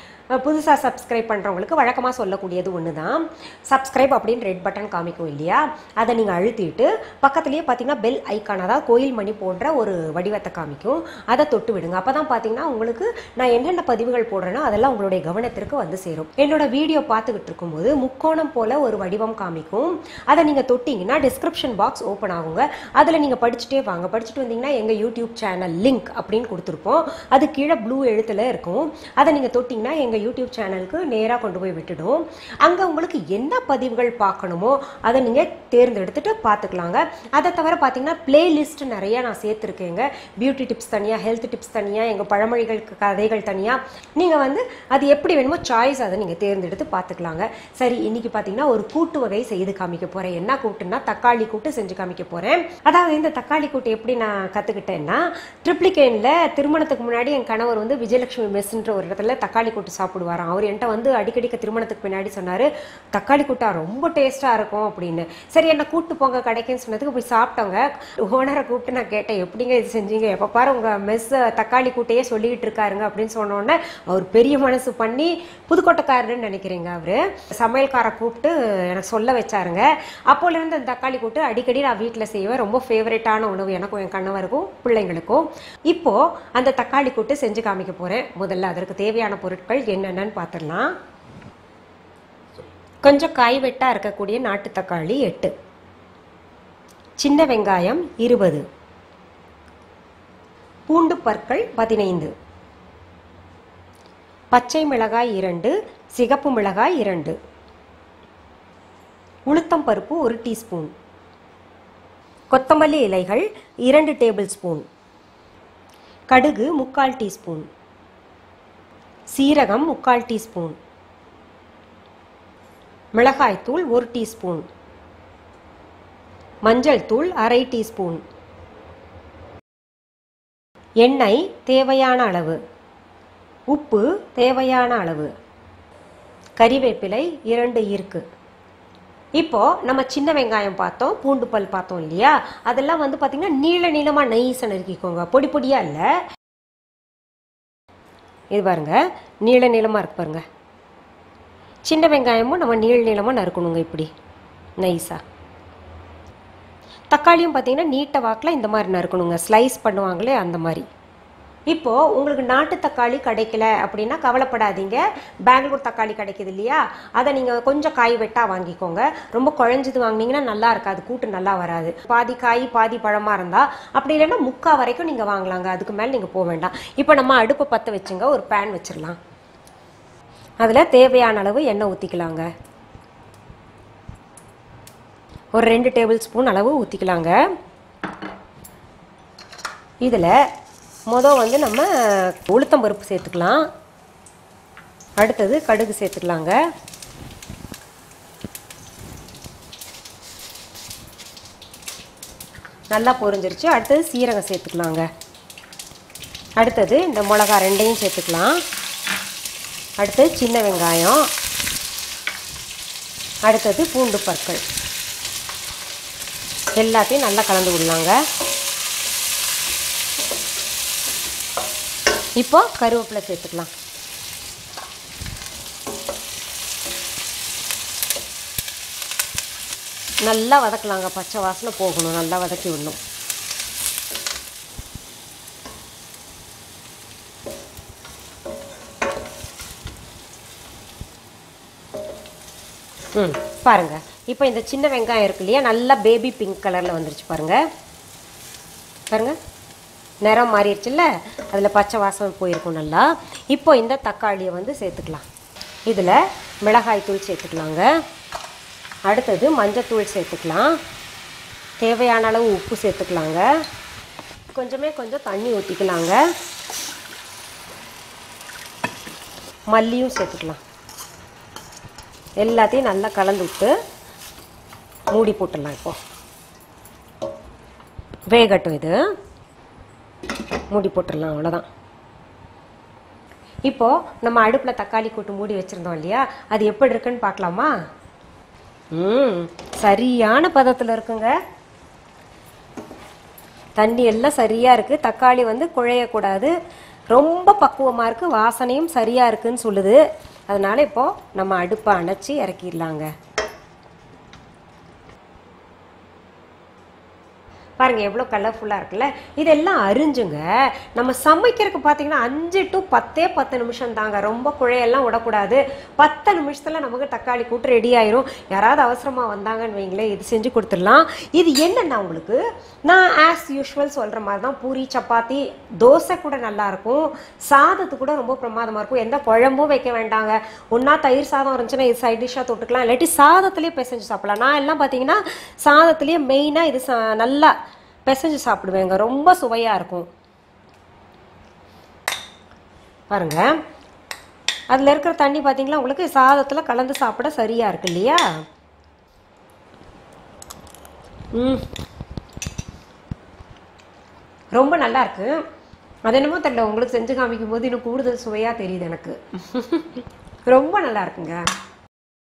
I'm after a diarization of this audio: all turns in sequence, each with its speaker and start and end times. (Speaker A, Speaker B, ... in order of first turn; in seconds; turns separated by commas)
Speaker A: 0.3-90.9, Speaker A: 93.0-95.5, Speaker A: 97.2-98.6, Speaker A: 100.9-102.3, Speaker A: 104.5-107.3, Speaker A: 109.5-110.9, Speaker A: 112.5-114.8, Speaker A: 116.3-117.7, Speaker A: 119.3-120.8, Speaker A: 123.2-124.7, Speaker A: 126.7-128.2, Speaker A: 131.0-132.6, Speaker A: 133.7-135.3, Speaker A: 136.6-138.2, Speaker A: 139.4-146.1, Speaker A: 148.5-150.4, Speaker A: 151.9-154.1, Speaker A: 154.8-155.2, Speaker A: 157.1-160.8, Speaker A: 161.7-179.2, Speaker A: 180.6-182.5, Speaker A: 185.5-187.4, Speaker A: 190.0-190.3, Speaker A: 191.1-193.7, Speaker A: 195.2-196.6, Speaker A: 202.9-205.1, Speaker A: 206.6-208.6, Speaker A: 210.0-211.2, Speaker A: 213.4-214.6, Speaker A: 216.8-218.2, Speaker A: 222.4-223.7, Speaker A: 230.2-233.0, Speaker A: 243.1-247.6, Speaker A: 249.1-249.3, Speaker A: 250.2-255.2, Speaker A: 255.9-257.9, Speaker A: 259.1-260.8, Speaker A: 261.8-263.5, Speaker A: 264.5-266.2, Speaker A: 269.7-270.6, Speaker A: 272.4-273.7, Speaker A: 275.1-276.0, Speaker A: 278.3-279.0, Speaker A: 280.7-281.6, Speaker A: 283.7-287.7, Speaker A: 288.9-291.4, Speaker A: 293.8-296.5, Speaker A: 297.1-303.1, Speaker A: 307.8-337.5, Speaker A: 338.1-340.1, Speaker A: 343.1-343.6, Speaker A: 344.7-348.2, Speaker A: 351.3-351.7, Speaker A: 354.6-355.4, Speaker A: 356.1-361.4